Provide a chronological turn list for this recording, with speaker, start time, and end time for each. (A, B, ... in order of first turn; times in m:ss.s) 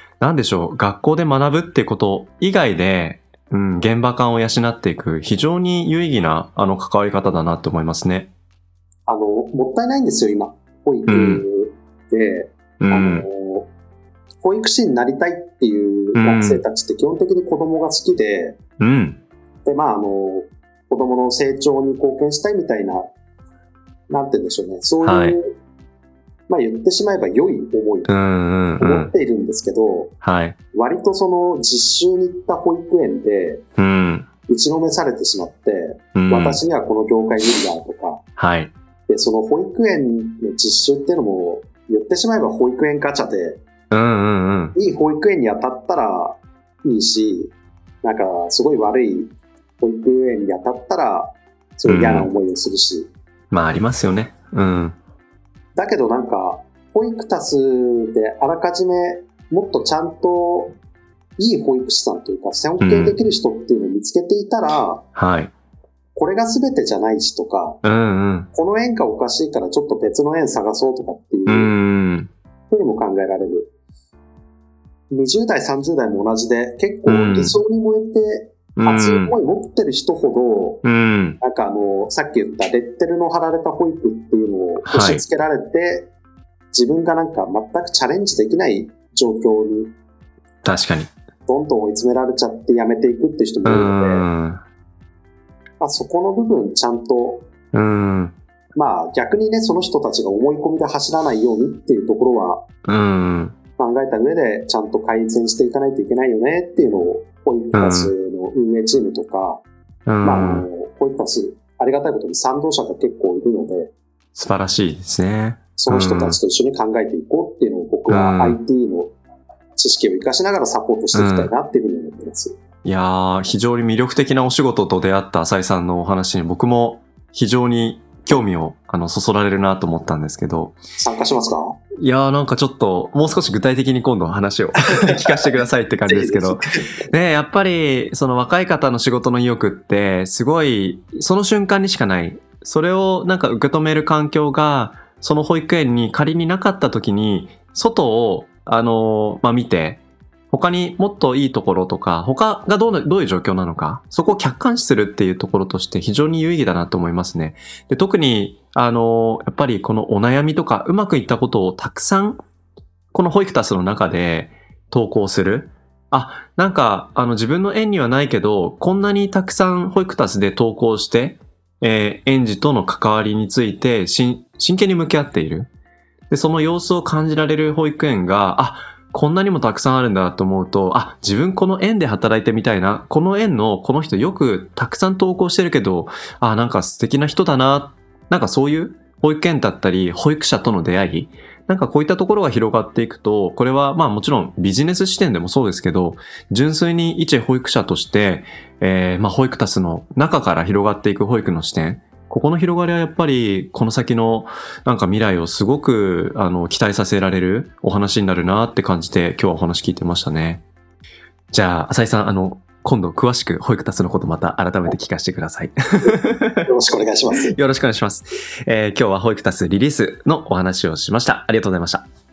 0:00.2-0:08.3 A
0:09.1-0:13.7 B
0:11.1-0:11.4 A
0:12.8-0:13.2 A
0:14.4-0:18.6 B
0:16.1-0:16.6 A
0:18.8-0:19.2 A
0:19.6-0:23.1 B
0:24.1-0:25.6 B
0:25.0-0:25.4 A
0:26.5-0:28.1 B
0:28.1-0:29.1 A
0:28.8-0:30.1 B
0:30.2-0:30.6 A
0:30.7-0:33.6 B
0:33.8-0:34.3 A
0:34.5-0:38.2 B
0:36.1-0:36.6 A
0:38.4-0:38.7 A
0:39.1-0:43.6 B
0:43.9-0:44.7 A
0:44.7-0:53.1 B
0:51.8-0:52.3 A
0:53.5-0:55.0 A
0:55.7-1:00.8 B
1:01.4-1:05.0 B
1:02.8-1:03.2 A
1:05.2-1:05.5 A
1:06.1-1:07.8 B
1:07.8-1:08.5 A
1:08.5-1:11.7 B
1:11.5-1:12.3 A
1:12.7-1:13.7 B
1:15.1-1:20.8 B
1:17.1-1:17.6 A
1:18.8-1:19.3 A
1:20.8-1:21.4 A
1:21.4-1:26.1 B
1:24.8-1:25.2 A
1:26.7-1:29.9 B
1:30.6-1:31.1 A
1:31.5-1:34.2 B
1:33.6-1:34.6 A
1:35.8-1:37.4 B
1:37.7-1:38.4 A
1:38.7-1:42.6 B
1:42.8-1:43.6 A
1:43.8-1:49.6 B
1:47.7-1:48.1 A
1:50.0-1:50.6 A
1:50.2-1:53.9 B
1:54.3-1:56.4 A
1:55.8-1:59.1 B
1:58.1-1:58.6 A
1:59.8-2:02.6 B
2:01.1-2:01.5 A
2:02.8-2:10.8 A
2:11.0-2:11.8 B
2:12.0-2:42.4 A
2:14.9-2:17.0 B
2:43.1-2:55.7 A
2:56.3-3:30.6 A
3:31.5-3:36.7 A
3:36.0-3:37.6 B
3:37.5-3:42.0 A